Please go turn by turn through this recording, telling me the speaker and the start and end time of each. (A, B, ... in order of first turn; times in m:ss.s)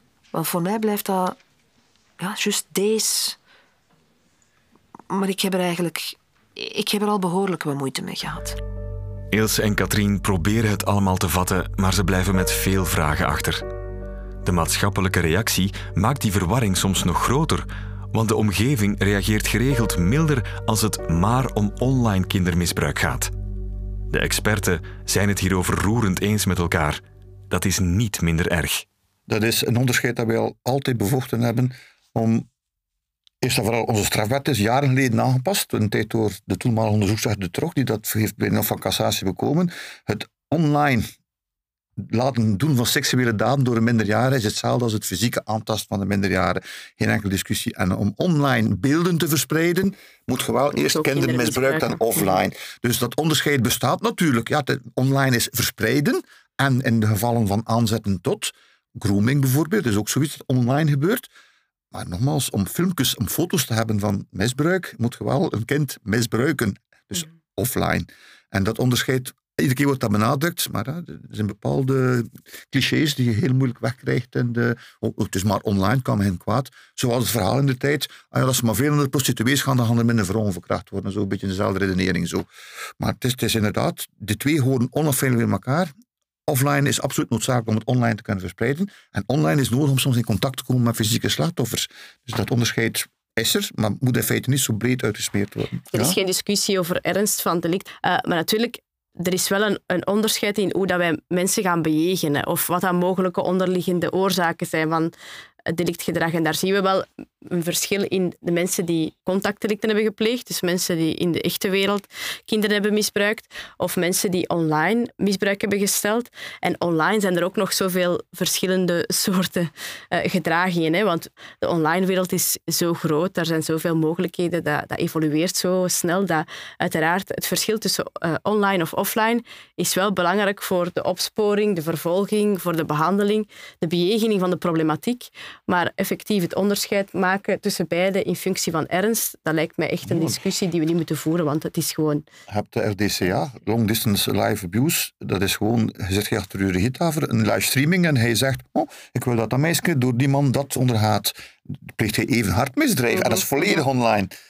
0:00.3-0:01.4 A
0:02.2-0:03.4 A
0:05.1-0:08.6 A
0:09.3-0:13.6 B
0:14.4-0:23.3 B
0:24.1-0:28.8 B
0:29.3-0:32.5 C
0:33.4-0:41.1 C
0:42.0-1:01.3 C
0:50.7-0:52.4 D
1:01.9-1:22.5 C
1:23.0-1:25.9 C
1:26.5-1:36.2 C
1:35.9-1:45.1 D
1:45.7-2:22.2 D
2:20.1-2:20.4 C
2:22.5-2:34.3 C